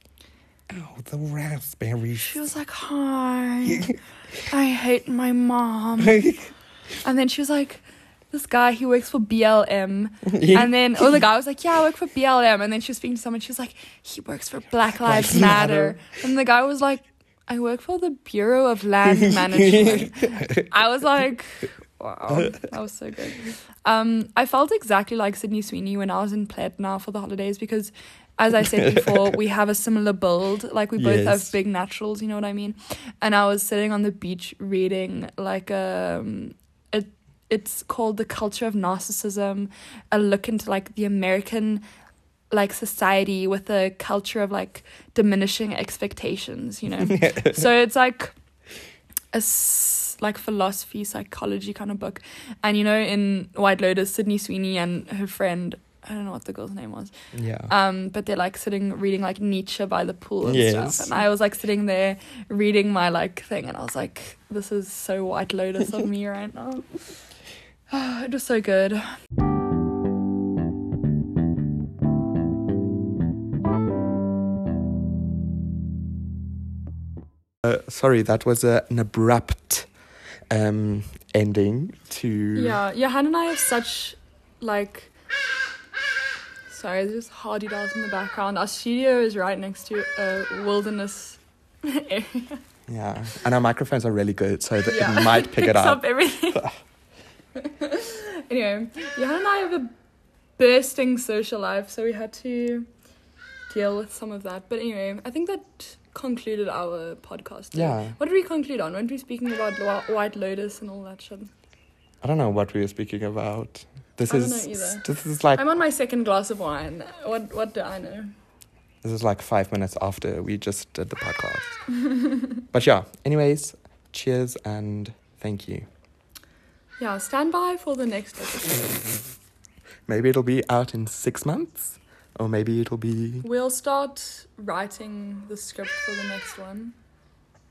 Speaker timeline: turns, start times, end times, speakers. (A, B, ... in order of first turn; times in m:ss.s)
0:00.7-0:02.4 A
0:02.1-0:06.3 B
0:03.7-0:03.9 A
0:06.0-0:06.5 A
0:07.0-0:41.8 B
0:10.2-0:11.2 A
0:15.0-0:16.0 A
0:19.0-0:20.7 A
0:22.3-0:22.7 A
0:28.6-0:29.4 A
0:31.0-0:31.5 A
0:42.5-0:48.3 B
0:47.0-0:47.7 A
0:49.3-0:57.1 B
0:57.3-0:57.7 A
0:57.7-1:06.9 B
1:00.4-1:01.2 A
1:07.9-1:09.0 B
1:17.6-1:19.9 A
1:20.5-1:22.8 A
1:22.5-1:25.1 B
1:26.7-1:32.6 B
1:32.9-1:36.7 A
1:34.9-1:36.7 B
1:37.6-1:39.9 B
1:40.6-1:42.9 B
1:43.7-1:51.5 B
1:47.7-1:48.2 A
1:52.2-1:55.6 A
1:54.3-1:58.3 B
1:59.0-2:01.8 A
2:02.7-2:05.9 A
2:07.0-2:09.0 B
2:10.1-2:13.5 A
2:13.4-2:16.9 B